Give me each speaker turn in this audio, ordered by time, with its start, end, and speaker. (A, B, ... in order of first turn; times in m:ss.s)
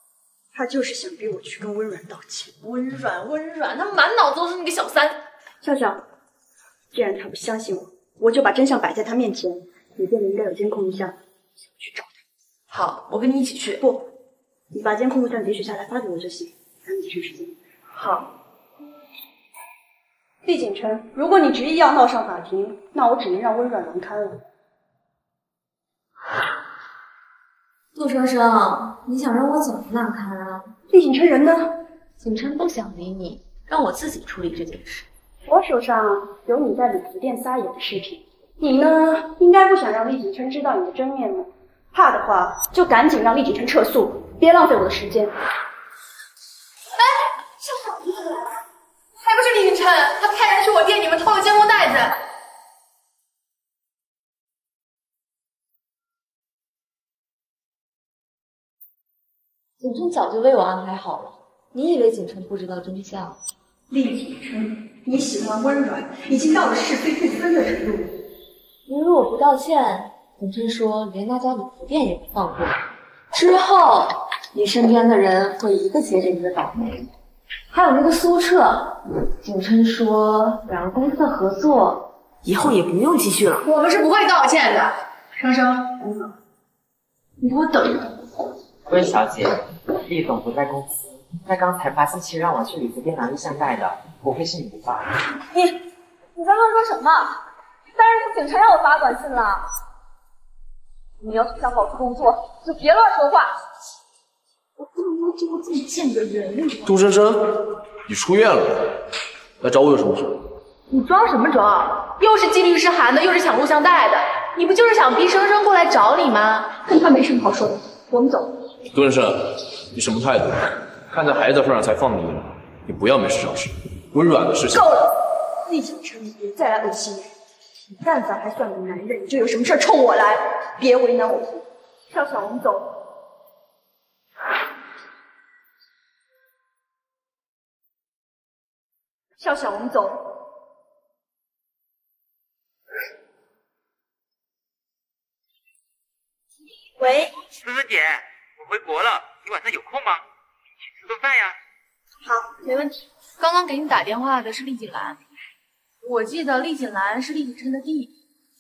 0:00.5-0:02.6 A
0:02.6-0:05.2 B
0:05.6-0:06.0 A
0:06.9-0:11.2 A
0:11.7-0:12.1 A
0:12.7-0:13.8 B
0:14.7-0:17.6 A
0:18.0-0:18.2 B
0:20.4-0:24.4 A
0:28.0-0:30.7 C
0:30.9-0:31.8 A
0:32.2-0:35.1 C
0:35.5-0:45.4 A
0:47.0-0:47.4 B
0:49.2-0:52.2 B
0:59.8-1:03.4 C
1:03.9-1:08.1 A
1:08.9-1:12.8 C
1:13.3-1:16.9 C
1:17.7-1:23.7 C
1:23.6-1:25.0 B
1:27.4-1:28.0 C
1:28.9-1:35.2 D
1:36.4-1:39.7 C
1:41.2-1:43.5 C
1:45.0-1:46.8 A
1:46.8-1:49.0 E
1:49.6-1:50.5 E
1:50.9-1:56.7 B
1:56.9-1:58.5 A
1:58.9-2:04.9 E
2:04.7-2:07.3 A
2:08.0-2:13.0 A
2:19.4-2:20.2 A
2:27.0-2:27.3 A
2:29.5-2:29.8 D
2:32.2-2:32.9 A
2:33.4-2:35.2 B
2:36.0-2:38.1 B